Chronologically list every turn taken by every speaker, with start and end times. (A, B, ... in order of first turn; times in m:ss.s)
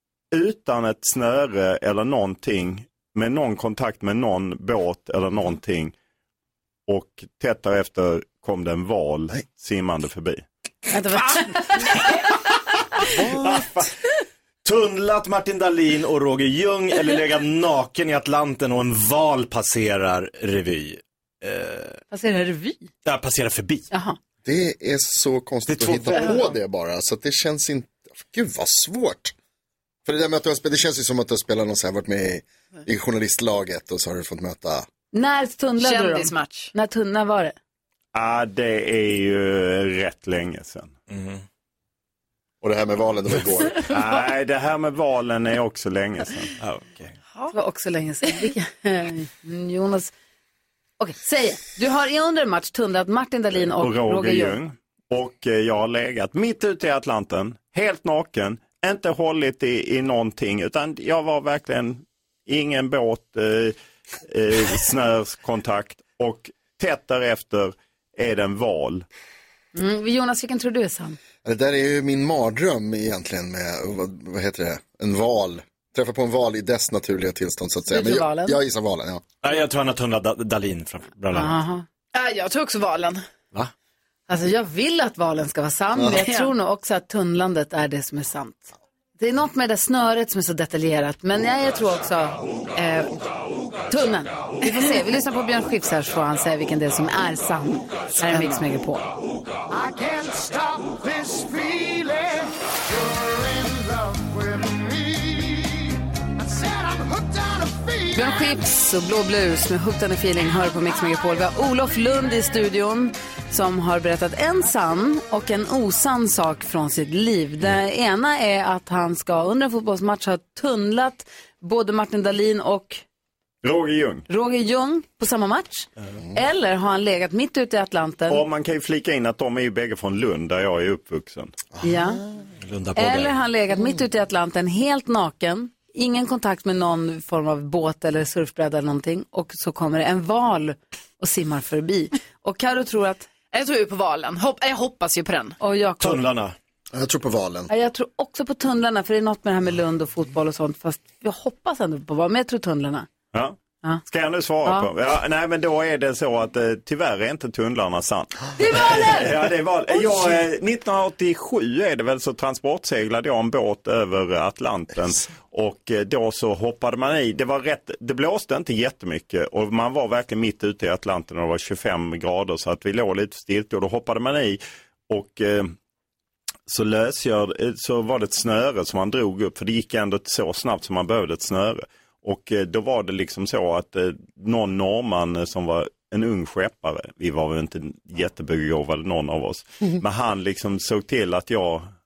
0:00.3-0:05.9 A
0:06.9-0:10.4 A
0:10.9-0:12.1 B
0:13.2-0:13.6 C
0:13.4-0:13.9 D
0:14.6-0:22.0 D
0:22.1-0:22.9 B
0:23.0-0:23.9 D
0:23.9-0:24.2 B
0:24.4-0:29.3 C
0:25.7-0:26.5 D
0:30.0-0:34.8 C
0:35.1-0:37.5 B
0:35.8-0:36.7 E
0:38.1-0:40.9 A
0:41.1-0:41.4 D
0:42.6-0:43.8 C
0:43.9-0:46.5 A
0:46.6-0:47.1 D
0:47.3-0:47.6 E
0:47.5-0:50.1 B
0:51.0-0:54.6 B
0:53.8-1:09.0 A
1:09.7-1:11.2 B
1:11.4-1:19.2 C
1:17.9-1:18.6 B
1:19.4-1:21.6 D
1:21.3-1:21.8 B
1:22.1-1:23.2 E
1:24.3-1:33.1 B
1:26.0-1:26.2 C
1:26.1-1:26.5 E
1:33.9-1:39.0 B
1:34.6-1:35.0 E
1:48.1-2:03.0 B
2:03.6-2:04.3 A
2:04.3-2:08.4 B
2:08.3-2:11.6 A
2:11.7-2:12.2 C
2:11.8-2:12.2 B
2:12.6-2:13.4 D
2:13.0-2:23.2 B
2:23.5-2:25.6 E
2:25.6-2:26.2 B
2:26.0-2:26.5 D
2:26.9-2:27.7 C
2:27.7-2:33.1 B
2:33.3-2:55.7 A
2:34.6-2:34.9 B
2:38.6-2:39.3 B
2:56.7-3:11.9 A